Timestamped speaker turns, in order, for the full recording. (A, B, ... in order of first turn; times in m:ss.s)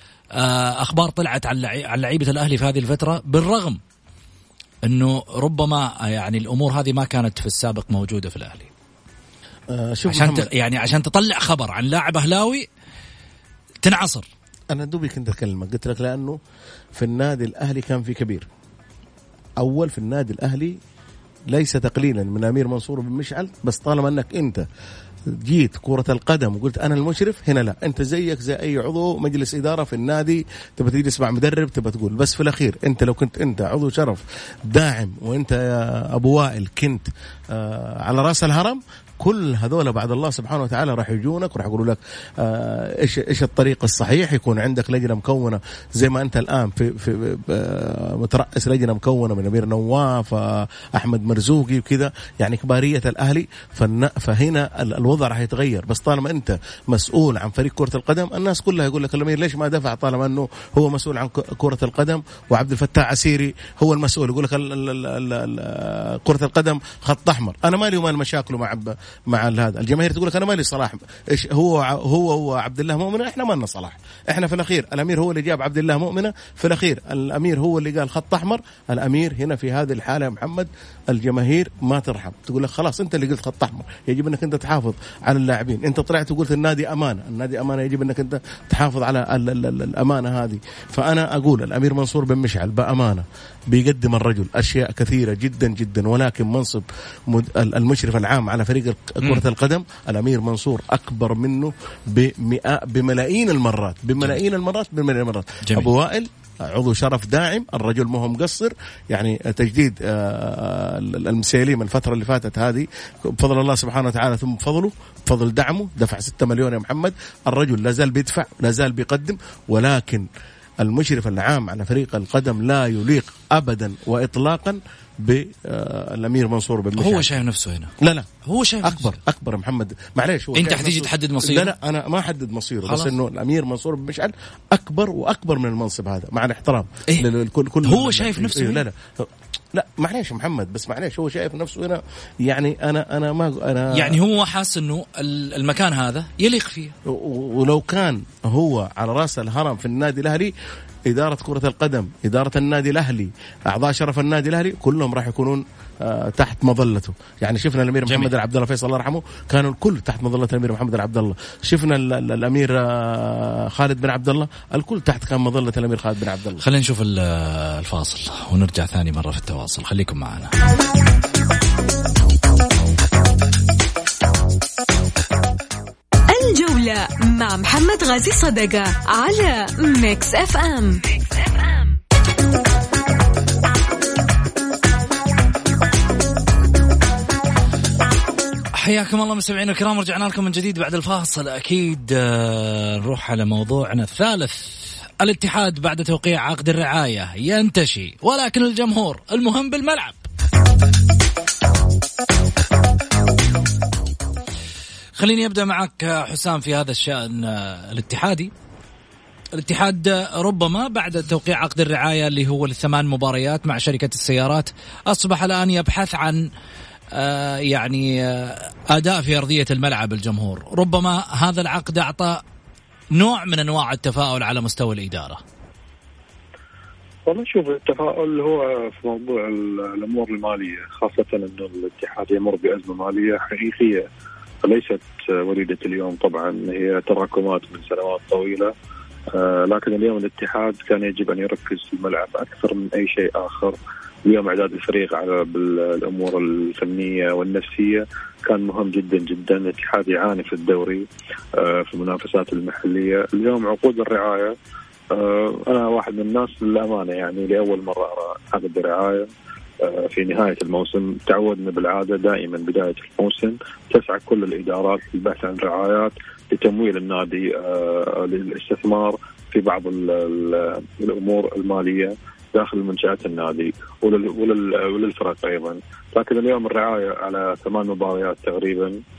0:00.4-0:03.8 A
0:04.9-0:08.7 A
0:09.7-0:10.5 B
0:10.1-0:12.6 A
0:13.8-0:14.2 A
0:14.7-0:16.4 B
0:16.9-0:18.4 B
0:19.6-0:20.8 B
0:21.5-0:24.6 B
0:25.3-2:00.3 B
2:00.8-2:07.4 B
2:07.0-2:07.9 A
2:08.0-2:08.3 B
2:08.5-2:09.2 A
2:08.8-2:24.2 B
2:10.5-2:11.7 A
2:12.9-2:13.1 A
2:17.8-2:18.8 A
2:23.9-2:26.9 A
2:27.1-2:30.5 B
2:31.1-2:46.6 B
2:46.6-2:50.5 A
2:56.3-3:02.0 C
3:08.8-3:20.2 A
3:25.2-3:28.5 A
3:29.5-3:36.4 A
3:37.1-3:42.4 A
3:43.1-3:45.4 A
3:47.3-3:54.1 D
3:54.6-3:58.7 D
3:59.3-4:11.0 D
4:11.6-4:14.5 D
4:15.1-4:19.3 D
4:19.8-4:39.0 D